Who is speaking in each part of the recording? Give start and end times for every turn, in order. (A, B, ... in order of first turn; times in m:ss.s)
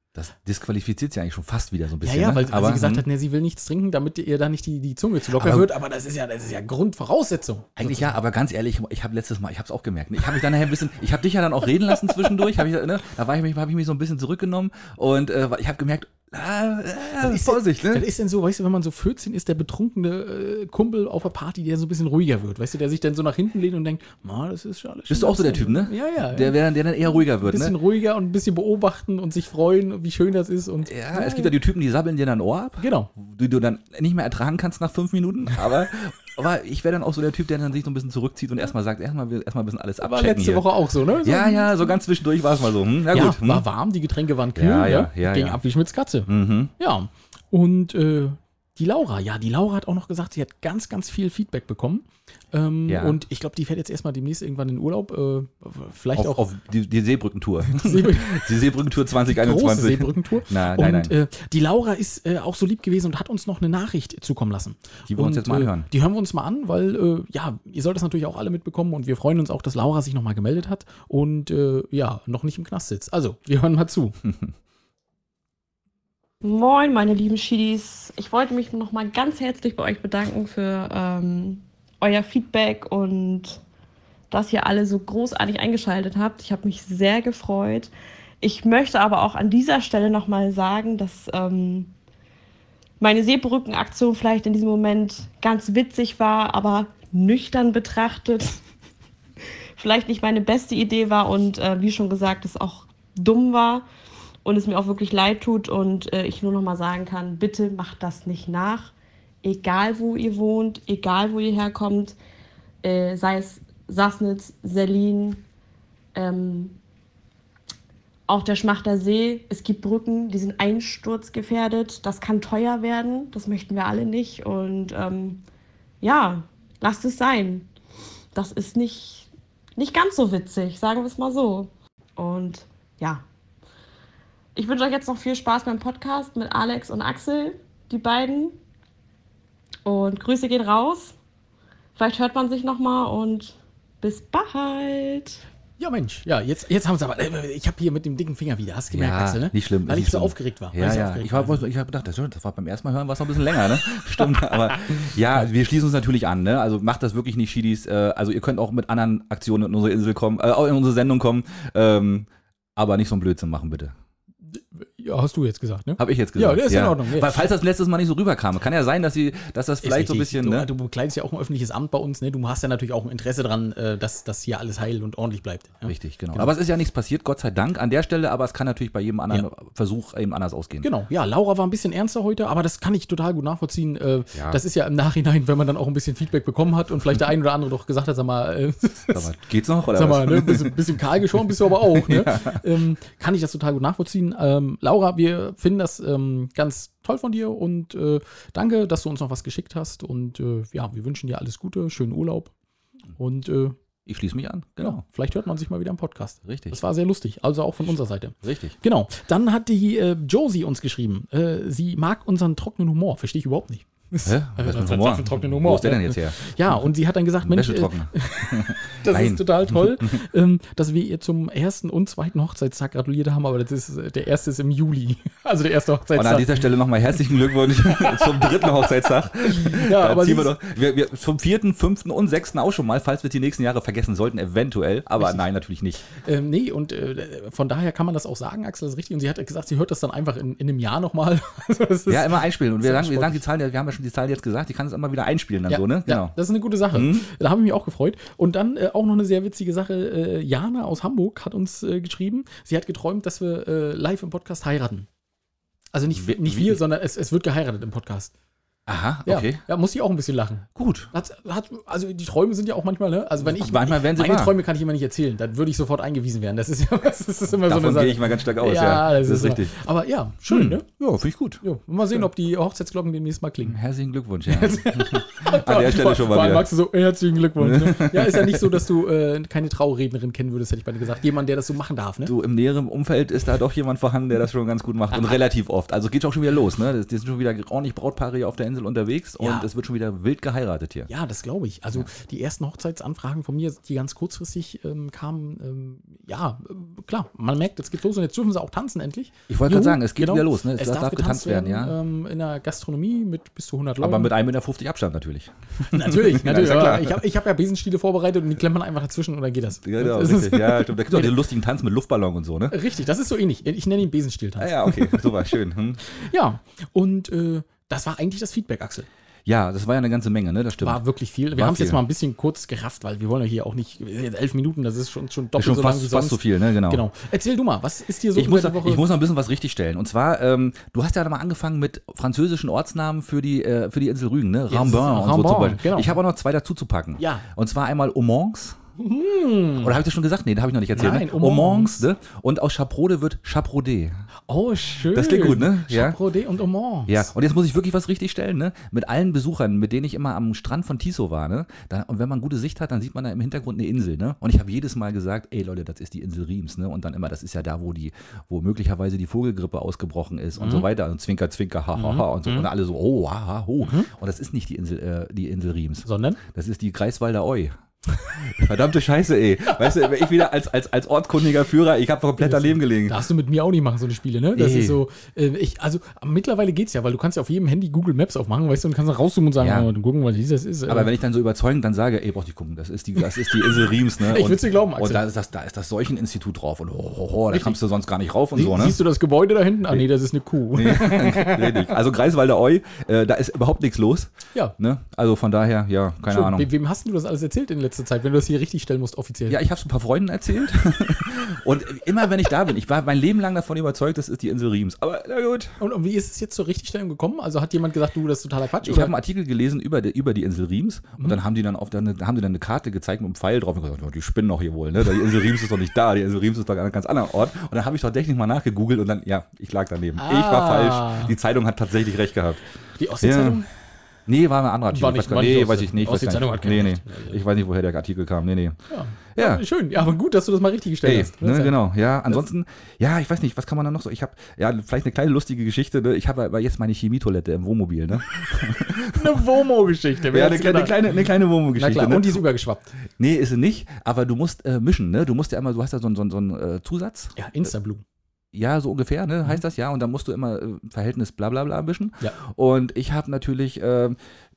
0:00.1-0:03.1 A
0:02.0-0:08.2 B
0:05.3-0:05.7 A
0:07.8-0:18.1 A
0:17.2-0:26.6 B
0:25.1-0:27.8 A
0:27.4-0:31.5 B
0:30.8-0:40.6 A
0:32.8-0:33.1 B
0:40.0-0:42.0 B
0:41.2-0:43.6 A
0:43.1-0:56.4 B
0:44.6-0:45.6 A
0:46.3-0:46.7 A
0:52.9-0:53.2 A
0:56.2-1:01.1 A
0:57.7-0:58.5 B
0:59.2-1:14.2 B
1:05.1-1:05.9 A
1:16.4-1:23.6 C
1:24.3-1:31.9 C
1:33.0-1:38.6 C
1:39.8-1:43.8 C
1:44.4-1:52.2 C
1:52.8-1:55.4 C
1:56.1-1:56.8 C
1:58.3-2:05.4 C
2:06.0-2:07.7 C
2:08.3-2:13.2 C
2:14.6-2:18.6 C
2:19.8-2:21.2 C
2:22.0-2:25.4 C
2:25.8-2:31.6 B
2:28.9-2:43.9 A
2:44.5-2:47.4 B
2:46.0-2:50.7 A
2:49.8-2:56.5 B
2:55.8-3:00.9 A
3:00.8-3:09.3 B
3:04.3-3:04.6 A
3:09.1-3:10.8 A
3:09.9-3:22.5 B
3:11.4-3:12.6 A
3:23.2-3:23.8 B
3:24.1-3:25.0 A
3:24.8-3:46.6 B
3:26.4-3:26.8 A
3:27.8-3:28.8 A
3:34.2-3:36.4 A
3:37.4-3:40.1 A
3:46.2-3:56.1 A
3:48.0-3:48.4 B
3:49.5-3:50.5 B
3:56.1-4:03.4 B
4:02.1-4:06.3 A
4:05.7-4:15.1 B
4:06.9-4:07.2 A
4:15.9-4:18.3 B
4:16.1-4:16.8 A
4:18.9-4:19.6 A
4:19.2-4:30.8 B
4:20.8-4:21.1 A
4:23.4-4:24.6 A
4:27.6-4:29.7 A
4:30.5-4:31.6 A
4:31.6-4:33.8 B
4:33.6-4:36.7 A
4:34.5-4:42.3 B
4:37.6-4:38.8 A
4:42.2-4:51.1 A
4:49.4-4:49.7 B
4:51.1-5:04.3 B
4:59.5-5:02.0 A
5:04.0-5:07.2 A
5:05.9-5:11.3 B
5:09.8-5:12.8 A
5:12.7-5:15.5 B
5:14.6-5:16.0 A
5:16.1-5:19.1 B
5:19.4-5:21.0 A
5:20.8-5:29.0 B
5:21.6-5:22.0 A
5:25.6-5:27.0 A
5:28.3-5:38.8 A
5:34.7-5:36.2 B
5:37.2-5:37.4 B
5:39.0-5:40.0 B
5:39.8-5:44.2 A
5:40.9-5:42.0 B
5:44.5-5:47.3 B
5:45.1-5:46.2 A
5:47.1-6:07.7 A
6:00.6-6:00.9 B
6:01.9-6:02.7 B
6:03.8-6:04.1 B
6:06.0-6:06.4 B
6:08.4-6:13.2 A
6:12.4-6:21.1 B
6:14.6-6:15.0 A
6:19.6-6:19.9 A
6:20.9-6:29.0 A
6:23.8-6:25.2 B
6:27.5-6:27.8 B
6:28.6-6:31.9 B
6:30.7-6:36.7 A
6:36.3-6:39.6 B
6:39.5-6:45.7 A
6:45.8-6:49.1 B
6:48.8-7:02.6 A
7:00.2-7:01.3 B
7:03.0-7:03.7 B
7:03.2-7:03.6 A
7:04.3-7:08.8 A
7:04.9-7:07.4 B
7:08.9-7:12.4 B
7:09.4-7:09.6 A
7:11.0-7:19.4 A
7:19.1-7:21.2 B
7:20.3-7:22.4 A
7:21.7-7:22.9 B
7:23.2-7:27.3 A
7:27.4-7:28.0 B
7:28.5-7:34.2 A